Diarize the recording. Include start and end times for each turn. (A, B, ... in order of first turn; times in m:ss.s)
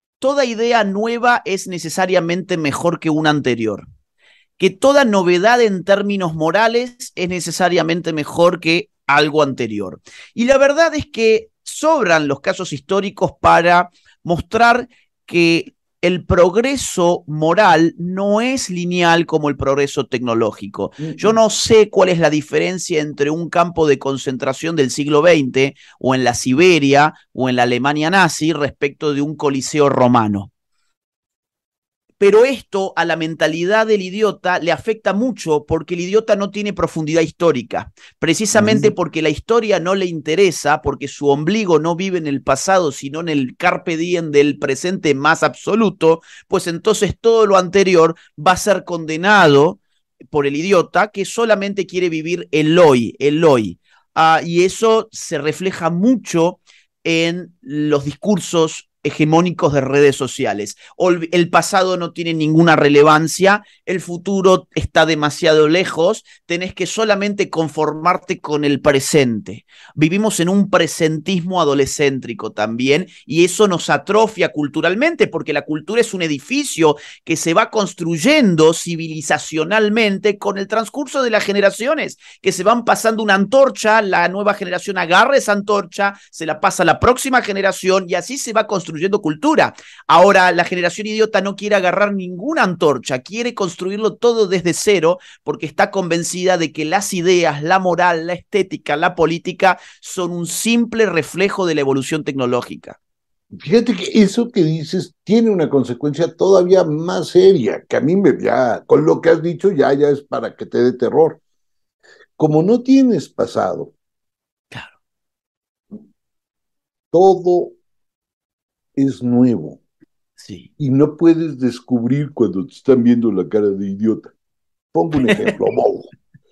0:00.2-0:03.9 A
0:04.6-0:30.5 A
0:21.0-0:21.3 B
0:32.2-1:43.0 A
0:38.5-0:38.9 B
1:43.5-1:51.4 B
1:52.4-1:53.9 B
1:57.1-1:57.8 B
1:59.0-1:59.8 B
2:00.4-2:00.7 A
2:00.8-2:04.3 B
2:04.9-2:06.1 B
2:05.2-2:05.5 A